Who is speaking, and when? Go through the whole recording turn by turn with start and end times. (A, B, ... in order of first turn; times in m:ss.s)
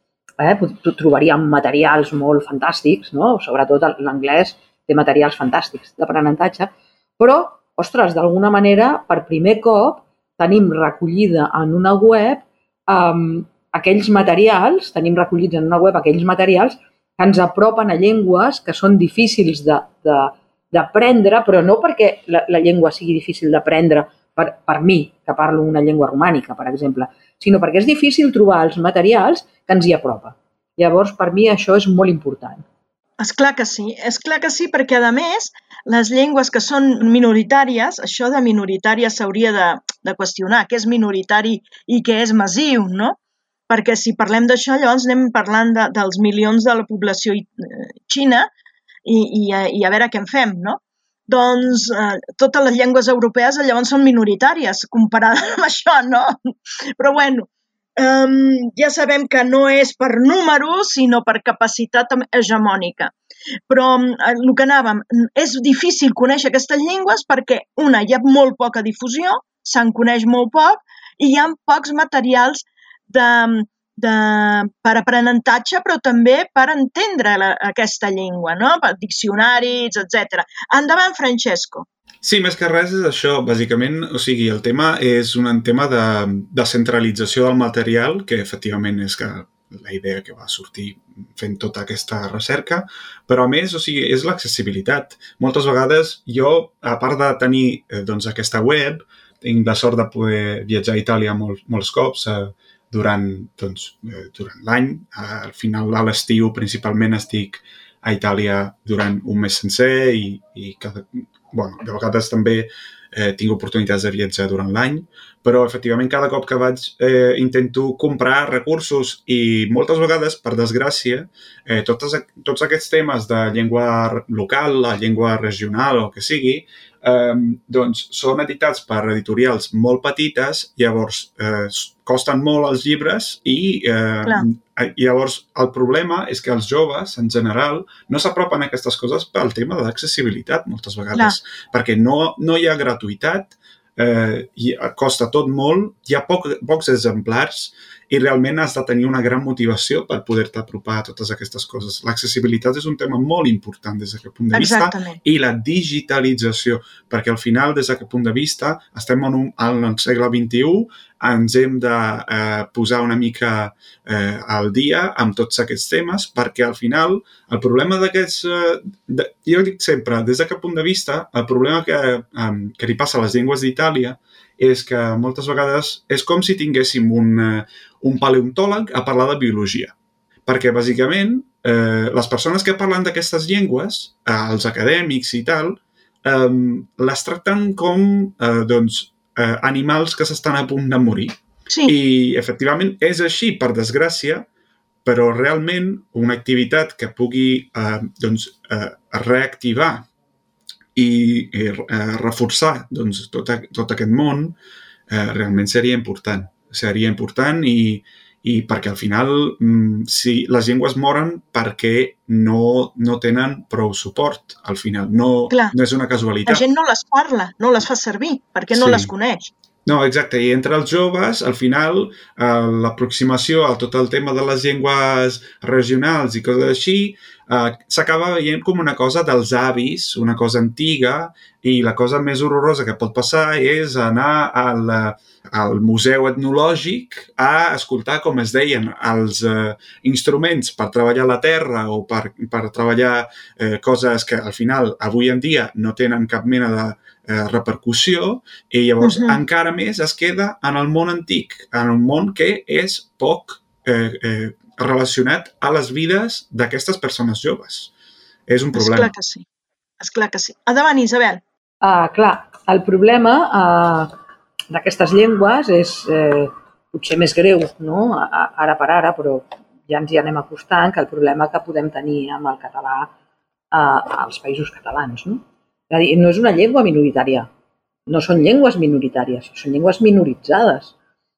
0:00.4-0:32.6 A
0:33.2-0:43.2 B
0:43.7-0:48.5 B
0:49.1-0:56.4 B
0:57.0-1:03.1 B
1:03.7-1:21.9 B
1:22.2-2:59.9 C
2:34.5-2:35.2 B
3:00.5-3:14.5 C
3:15.0-3:20.1 C
3:21.0-3:24.6 C
3:25.1-3:36.6 C
3:36.5-3:39.5 B
3:38.7-3:39.1 C
3:39.8-4:17.9 C
4:09.0-4:09.4 B
4:18.5-4:19.1 C
4:18.8-4:19.4 B
4:20.0-4:21.4 B
4:21.8-4:24.1 A
4:24.7-4:33.1 A
4:33.7-4:37.5 A
4:38.1-4:40.9 A